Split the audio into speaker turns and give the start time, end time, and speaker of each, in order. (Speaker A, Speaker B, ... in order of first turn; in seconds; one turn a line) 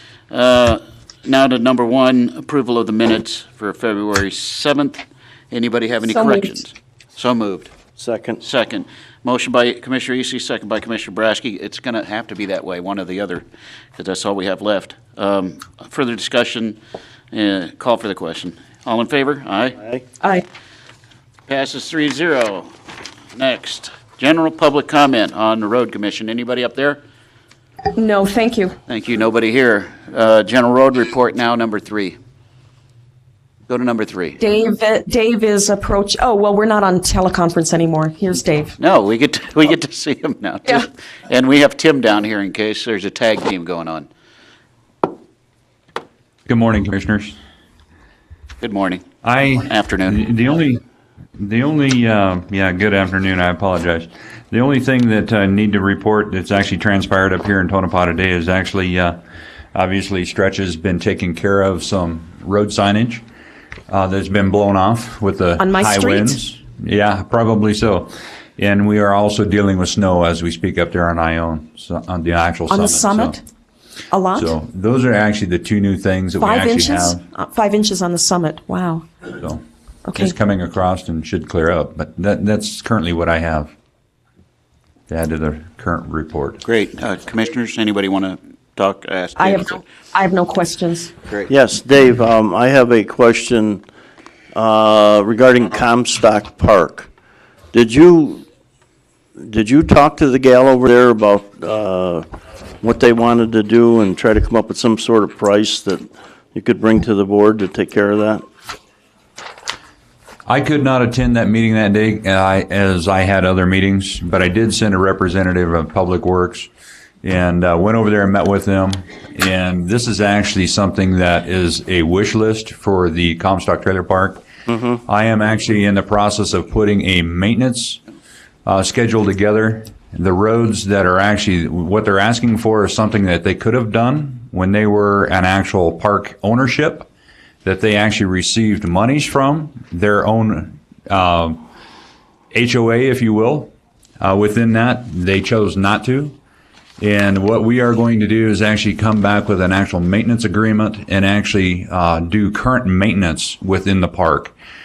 Speaker A: 0.3-7.7
Speaker B: 6.1-6.6
Speaker C: 8.0-8.4
Speaker A: 8.4-16.8
Speaker A: 17.3-19.8
Speaker A: 21.5-22.7
Speaker A: 23.4-27.0
Speaker B: 27.9-28.8
Speaker A: 28.9-32.2
Speaker A: 33.7-34.4
Speaker B: 34.4-38.8
Speaker A: 38.8-44.1
Speaker D: 46.5-47.4
Speaker A: 48.6-49.0
Speaker D: 49.2-50.8
Speaker A: 49.6-50.2
Speaker D: 51.4-59.2
Speaker D: 59.7-63.2
Speaker D: 63.9-73.4
Speaker B: 65.6-66.4
Speaker B: 72.7-73.4
Speaker B: 74.1-74.5
Speaker D: 74.4-77.2
Speaker B: 76.4-79.1
Speaker B: 80.0-80.3
Speaker D: 80.2-83.7
Speaker D: 85.1-86.6
Speaker A: 86.6-89.8
Speaker B: 89.4-91.1
Speaker C: 91.5-93.8
Speaker C: 94.5-97.1
Speaker C: 97.7-98.4
Speaker C: 99.4-102.3
Speaker C: 102.8-108.4
Speaker D: 110.5-116.7
Speaker D: 117.2-124.4
Speaker D: 125.0-128.0
Speaker D: 128.7-137.1
Speaker D: 137.6-141.7
Speaker D: 142.5-146.4
Speaker D: 147.0-154.5